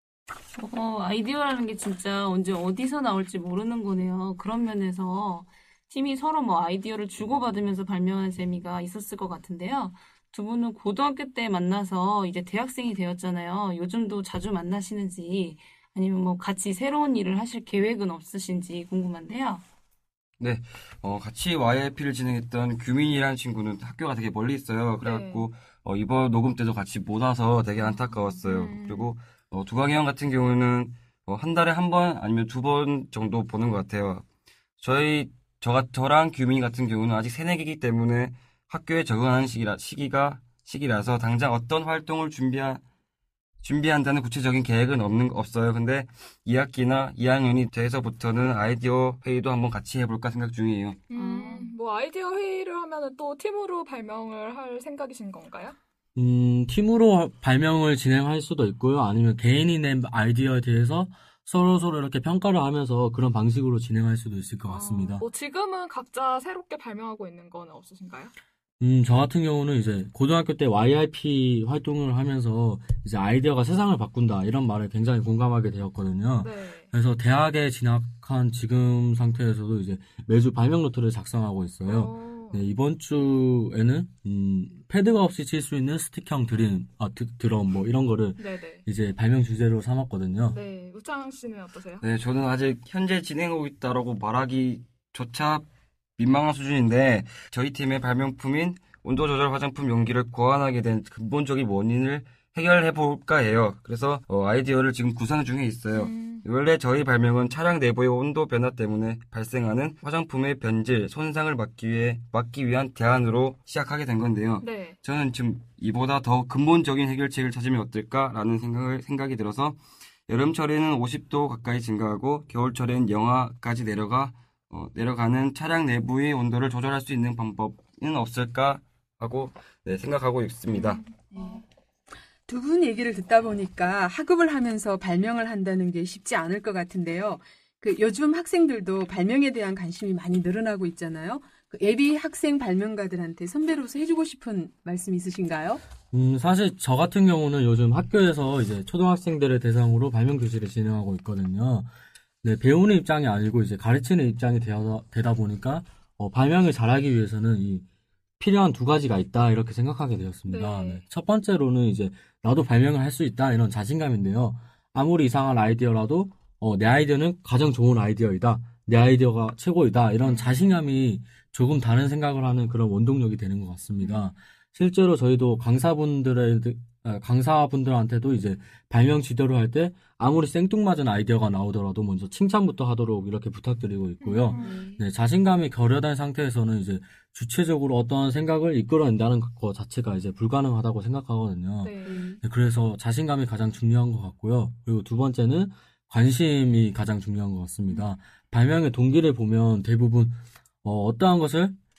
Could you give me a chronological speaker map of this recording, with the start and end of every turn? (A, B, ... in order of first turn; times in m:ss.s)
0:00.6-0:19.6 A
0:20.4-0:34.2 B
0:25.0-0:25.5 C
0:27.8-0:29.1 C
0:34.8-0:42.8 B
0:43.6-0:51.0 B
0:51.1-0:55.8 C
0:51.1-0:51.7 A
0:56.2-1:05.2 D
1:04.7-1:08.3 C
1:08.8-1:30.6 D
1:16.4-1:16.9 C
1:21.9-1:22.6 C
1:28.4-1:28.8 C
1:30.5-1:32.0 C
1:32.0-2:11.0 B
1:45.9-1:46.4 C
1:54.6-1:55.0 C
2:10.7-2:11.0 C
2:11.3-2:11.6 E
2:12.5-2:25.8 E
2:26.1-2:31.9 D
2:32.4-2:37.8 D
2:38.4-3:21.8 D
2:40.5-2:41.0 C
2:50.2-2:50.6 C
2:54.0-2:54.3 C
3:04.2-3:04.8 C
3:11.8-3:12.2 C